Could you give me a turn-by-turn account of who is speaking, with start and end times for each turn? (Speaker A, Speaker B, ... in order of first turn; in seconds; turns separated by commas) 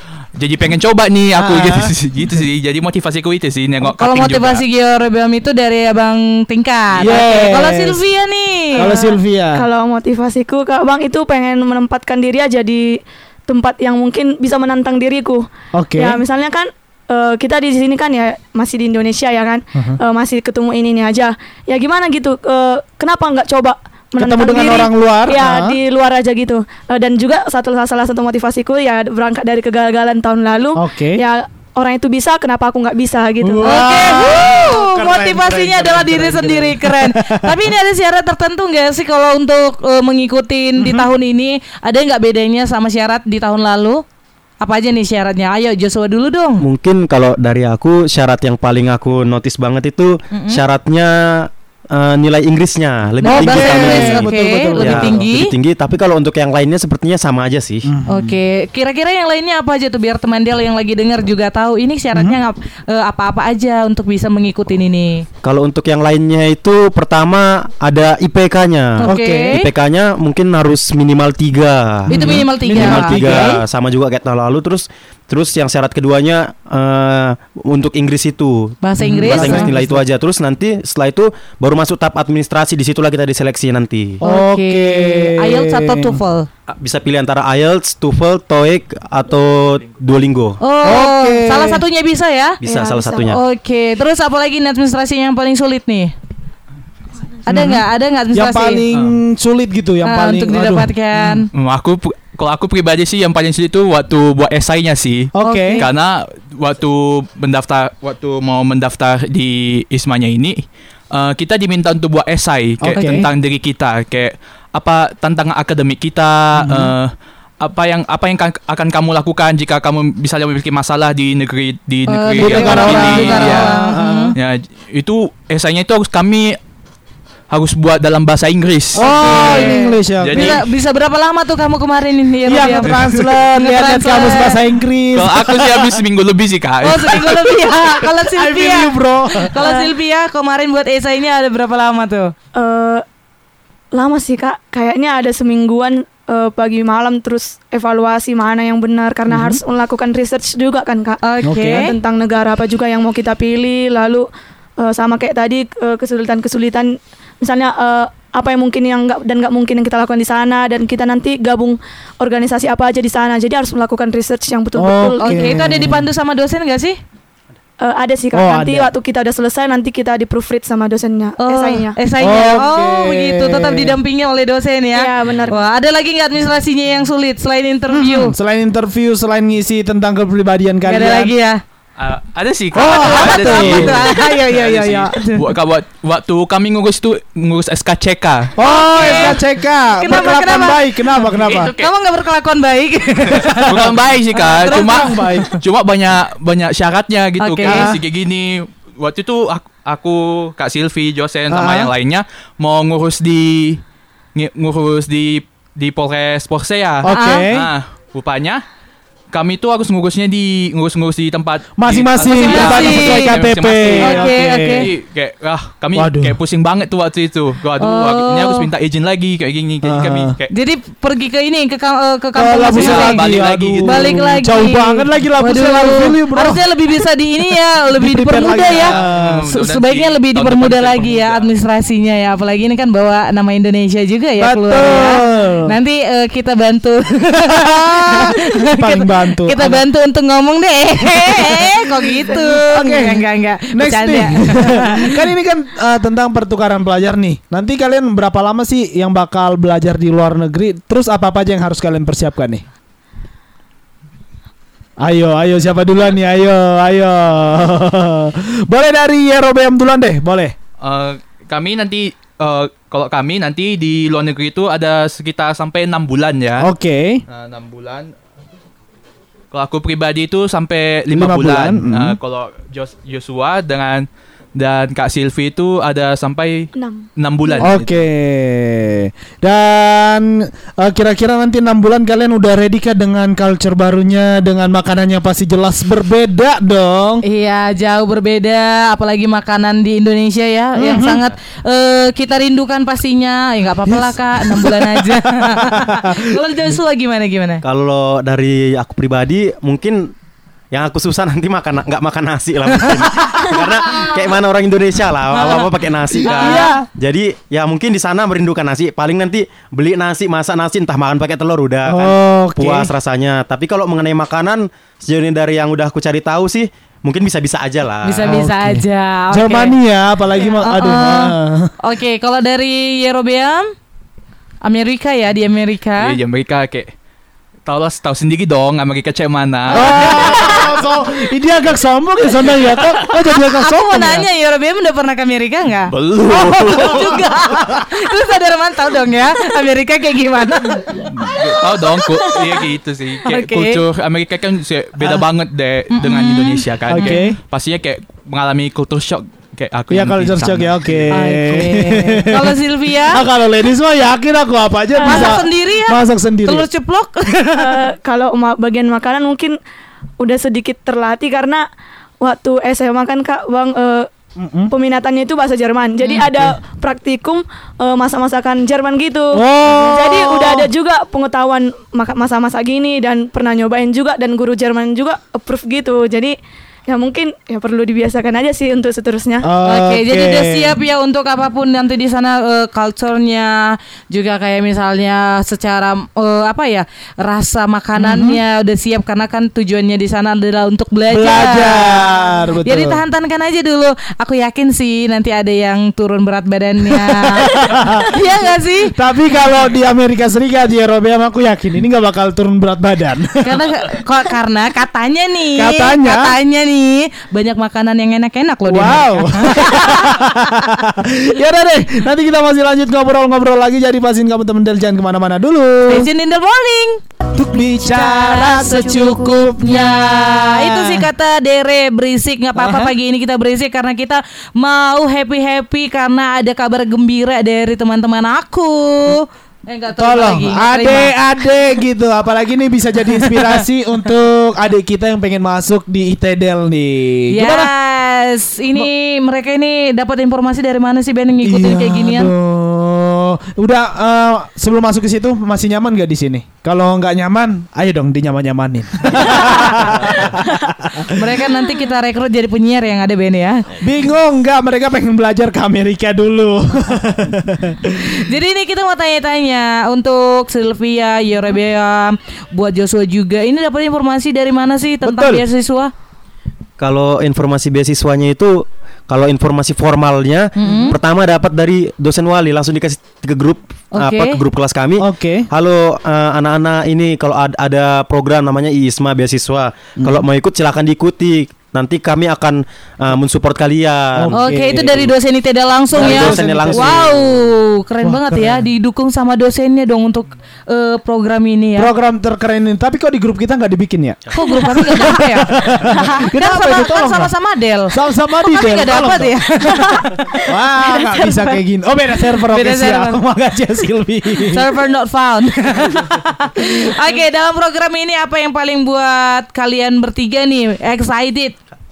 Speaker A: 0.3-4.6, Speaker B: 1.4-1.9, Speaker C: 3.9-8.9, Speaker B: 6.9-8.0, Speaker B: 8.8-9.6, Speaker D: 8.8-34.1, Speaker B: 15.7-16.2, Speaker B: 24.2-25.8, Speaker B: 30.8-31.2, Speaker B: 33.4-37.7, Speaker C: 33.6-44.0, Speaker B: 40.8-41.1, Speaker C: 44.6-46.6, Speaker E: 46.6-57.9, Speaker C: 50.3-50.6, Speaker C: 53.2-55.5, Speaker B: 53.2-55.2, Speaker B: 57.8-58.4, Speaker C: 58.1-65.2, Speaker E: 65.4-84.2, Speaker C: 69.0-69.7, Speaker B: 69.0-69.5, Speaker C: 72.1-73.6, Speaker B: 72.1-73.5, Speaker C: 78.8-79.7, Speaker B: 79.0-80.0, Speaker B: 84.2-86.2, Speaker C: 84.2-86.5, Speaker E: 86.7-90.6, Speaker C: 90.6-92.6, Speaker B: 90.8-91.8, Speaker E: 92.6-93.4, Speaker D: 92.7-93.3, Speaker C: 93.2-96.1, Speaker C: 97.5-98.8, Speaker B: 97.5-101.4, Speaker A: 98.9-99.2, Speaker C: 100.0-101.5, Speaker A: 101.5-123.8, Speaker B: 105.3-105.8, Speaker C: 105.4-105.9, Speaker B: 112.8-113.2, Speaker C: 112.9-113.3, Speaker B: 116.6-116.9, Speaker C: 122.1-124.3, Speaker B: 122.4-124.3, Speaker A: 124.3-126.6, Speaker A: 127.5-130.6, Speaker B: 128.9-130.6, Speaker C: 129.0-133.0, Speaker B: 132.4-136.0, Speaker C: 133.5-134.6, Speaker A: 135.1-137.5, Speaker C: 136.8-142.3, Speaker B: 138.3-139.5, Speaker D: 139.6-139.9, Speaker D: 142.5-143.0, Speaker D: 143.9-154.3, Speaker B: 149.3-149.6, Speaker C: 151.2-151.9, Speaker B: 151.4-151.8, Speaker D: 154.8-165.6, Speaker B: 164.8-166.1, Speaker C: 165.2-167.0, Speaker D: 167.8-172.0, Speaker B: 168.3-168.9, Speaker C: 171.4-178.3, Speaker B: 172.2-173.9, Speaker D: 174.9-175.6, Speaker B: 177.9-181.3, Speaker C: 180.8-181.6, Speaker A: 182.0-189.4, Speaker B: 182.7-185.1, Speaker C: 182.8-185.4, Speaker B: 188.6-191.7, Speaker C: 188.6-189.4, Speaker C: 189.9-193.8, Speaker A: 191.3-191.9, Speaker B: 193.4-195.5, Speaker A: 193.6-203.8, Speaker C: 194.9-195.5, Speaker C: 197.4-197.9, Speaker B: 197.6-198.0, Speaker B: 201.5-201.9, Speaker A: 204.3-208.6, Speaker B: 207.0-207.7, Speaker C: 207.1-207.4, Speaker A: 209.3-220.5, Speaker B: 211.8-214.9, Speaker C: 212.3-213.3, Speaker C: 214.0-214.9, Speaker B: 215.9-216.4, Speaker C: 217.8-218.7, Speaker B: 219.8-220.3, Speaker C: 220.5-223.2, Speaker B: 222.3-226.6, Speaker A: 222.8-224.2, Speaker C: 223.8-228.9, Speaker B: 228.0-229.4, Speaker A: 228.8-231.5, Speaker C: 229.4-245.2, Speaker B: 234.4-235.7, Speaker B: 237.4-239.8, Speaker B: 241.1-252.6, Speaker B: 255.0-260.5, Speaker A: 260.8-266.7, Speaker B: 266.6-267.2, Speaker A: 267.3-268.1, Speaker A: 269.5-278.0, Speaker B: 271.1-272.2, Speaker D: 276.7-277.7, Speaker B: 277.6-287.2, Speaker C: 287.2-297.6, Speaker B: 290.8-291.2, Speaker B: 293.9-296.0, Speaker E: 297.6-300.1, Speaker E: 300.7-318.3, Speaker B: 302.8-303.4, Speaker C: 306.2-306.7, Speaker D: 306.2-306.8, Speaker A: 306.3-306.6, Speaker B: 306.4-306.9, Speaker B: 311.9-312.9, Speaker C: 318.0-319.7, Speaker B: 318.2-321.7, Speaker C: 320.6-323.7, Speaker C: 324.6-326.1, Speaker A: 326.0-326.9, Speaker A: 327.6-330.2, Speaker B: 329.7-334.3, Speaker C: 329.7-330.8, Speaker C: 333.3-342.6, Speaker A: 335.9-337.3, Speaker A: 341.0-351.1, Speaker C: 343.2-343.8, Speaker B: 345.0-345.2, Speaker C: 345.9-347.2, Speaker B: 346.9-347.4, Speaker B: 349.9-356.7, Speaker C: 351.1-353.2, Speaker C: 354.9-357.8, Speaker D: 355.0-355.4, Speaker D: 357.5-359.6, Speaker D: 360.2-361.6, Speaker D: 362.2-364.1, Speaker B: 364.4-364.7, Speaker D: 364.7-376.4, Speaker B: 366.1-366.5, Speaker B: 369.3-370.7, Speaker D: 376.9-379.5, Speaker B: 379.4-380.8, Speaker C: 379.6-398.9, Speaker B: 388.0-388.4, Speaker B: 391.1-393.0, Speaker B: 396.9-398.1, Speaker B: 398.9-403.7, Speaker C: 403.4-410.2, Speaker B: 405.6-406.4, Speaker B: 408.7-416.1, Speaker C: 415.9-417.0, Speaker B: 417.3-421.1, Speaker C: 417.8-431.1, Speaker B: 422.6-422.9, Speaker B: 430.0-437.7, Speaker C: 433.2-433.6, Speaker C: 437.3-442.3, Speaker B: 441.4-451.2, Speaker C: 449.3-450.4, Speaker C: 451.1-453.6, Speaker B: 453.8-458.2, Speaker C: 458.0-465.9, Speaker B: 465.0-465.4, Speaker E: 466.8-485.1, Speaker C: 470.6-470.9, Speaker B: 470.6-470.9, Speaker C: 473.9-474.4, Speaker B: 475.0-475.5, Speaker B: 480.0-480.2, Speaker B: 484.2-484.8, Speaker C: 484.4-491.9, Speaker B: 485.9-487.0, Speaker E: 485.9-487.4, Speaker B: 488.0-488.6, Speaker B: 491.8-497.3, Speaker C: 494.3-497.9, Speaker B: 497.9-499.8, Speaker C: 498.5-501.6, Speaker B: 500.4-504.7, Speaker C: 502.4-503.2, Speaker C: 504.5-511.6